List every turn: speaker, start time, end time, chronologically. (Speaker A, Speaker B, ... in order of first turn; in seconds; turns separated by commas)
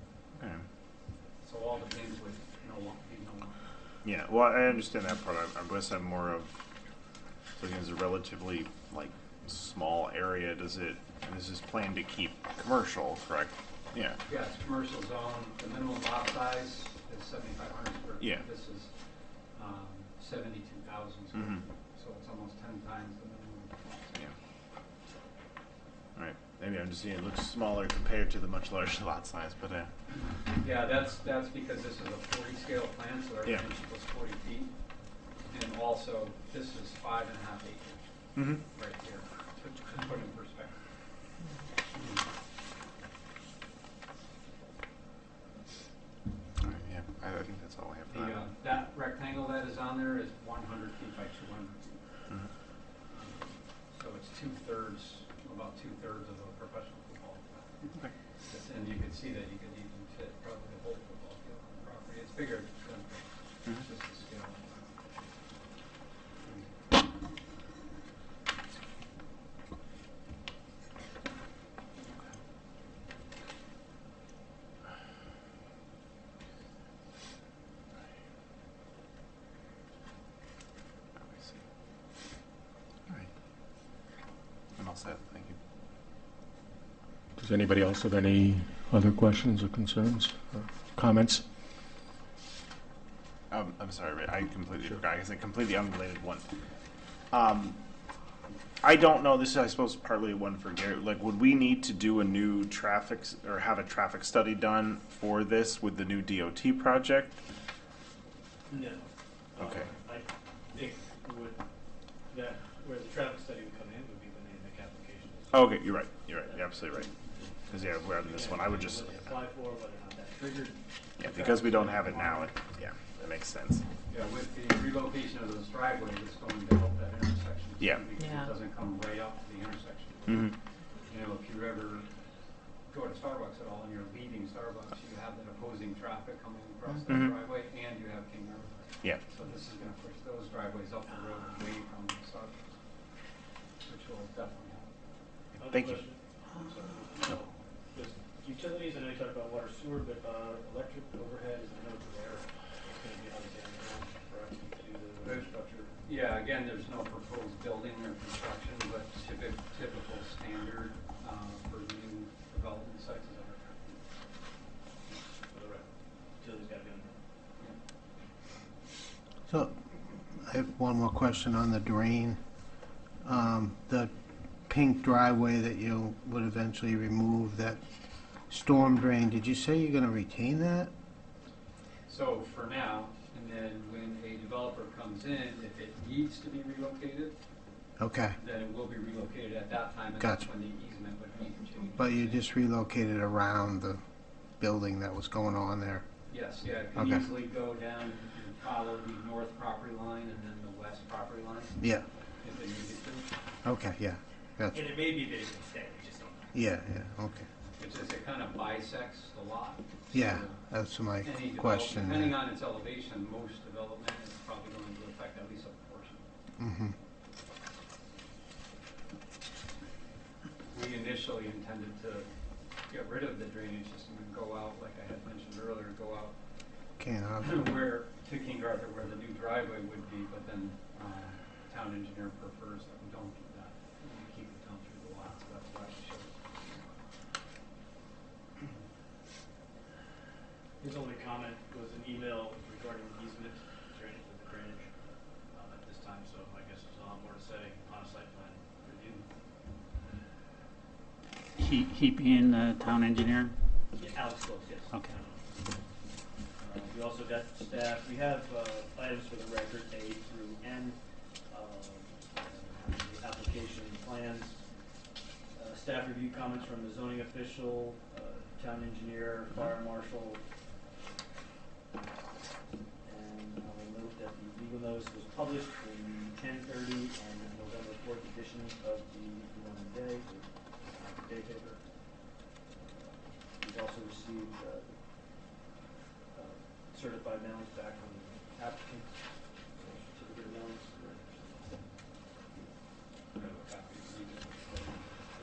Speaker A: 0.3-0.6, Speaker B: 1.4-3.5, Speaker A: 4.0-6.5, Speaker A: 7.6-14.2, Speaker B: 14.2-18.9, Speaker A: 18.2-18.4, Speaker B: 19.5-24.2, Speaker A: 21.3-21.6, Speaker A: 26.1-29.9, Speaker B: 30.5-34.7, Speaker B: 35.5-40.7, Speaker A: 38.4-38.6, Speaker A: 46.6-48.4, Speaker B: 48.1-52.0, Speaker B: 53.1-64.9, Speaker B: 66.4-66.9, Speaker A: 81.2-81.6, Speaker A: 84.8-85.6, Speaker C: 87.4-91.4, Speaker A: 93.5-96.4, Speaker A: 97.3-97.8, Speaker A: 98.8-107.3, Speaker D: 108.7-111.6, Speaker A: 109.6-109.9, Speaker D: 112.3-115.6, Speaker A: 115.5-117.2, Speaker D: 116.4-122.5, Speaker A: 117.7-119.3, Speaker A: 121.2-123.8, Speaker B: 124.1-130.5, Speaker A: 127.8-128.1, Speaker E: 128.2-128.4, Speaker A: 130.2-130.5, Speaker B: 131.1-132.1, Speaker B: 132.9-142.7, Speaker A: 137.1-137.3, Speaker B: 143.8-144.9, Speaker D: 145.6-155.6, Speaker A: 145.7-146.0, Speaker B: 155.2-164.0, Speaker D: 165.5-165.9, Speaker D: 166.4-167.2, Speaker F: 169.5-169.8, Speaker F: 170.3-172.4, Speaker F: 173.2-174.1, Speaker F: 174.7-177.8, Speaker F: 178.5-180.9, Speaker B: 182.1-187.3, Speaker F: 188.0-188.4, Speaker B: 188.4-192.4, Speaker F: 190.2-190.4, Speaker F: 191.9-194.0, Speaker F: 194.6-196.0, Speaker B: 196.3-201.8, Speaker F: 196.9-197.2, Speaker F: 201.8-202.1, Speaker B: 202.4-203.3, Speaker F: 203.6-204.8, Speaker D: 204.7-206.5, Speaker F: 206.5-207.5, Speaker B: 207.8-210.6, Speaker F: 210.1-212.4, Speaker B: 211.2-216.2, Speaker F: 216.6-216.9, Speaker B: 220.7-222.3, Speaker B: 222.9-226.3, Speaker F: 227.0-227.6, Speaker B: 227.4-237.0, Speaker D: 240.8-244.9, Speaker D: 245.5-249.2, Speaker E: 251.6-253.6, Speaker D: 253.9-255.6, Speaker D: 256.6-264.6, Speaker D: 265.5-270.4, Speaker D: 273.0-281.8, Speaker D: 282.8-284.9, Speaker D: 286.3-289.1, Speaker D: 289.7-291.8, Speaker B: 293.3-295.3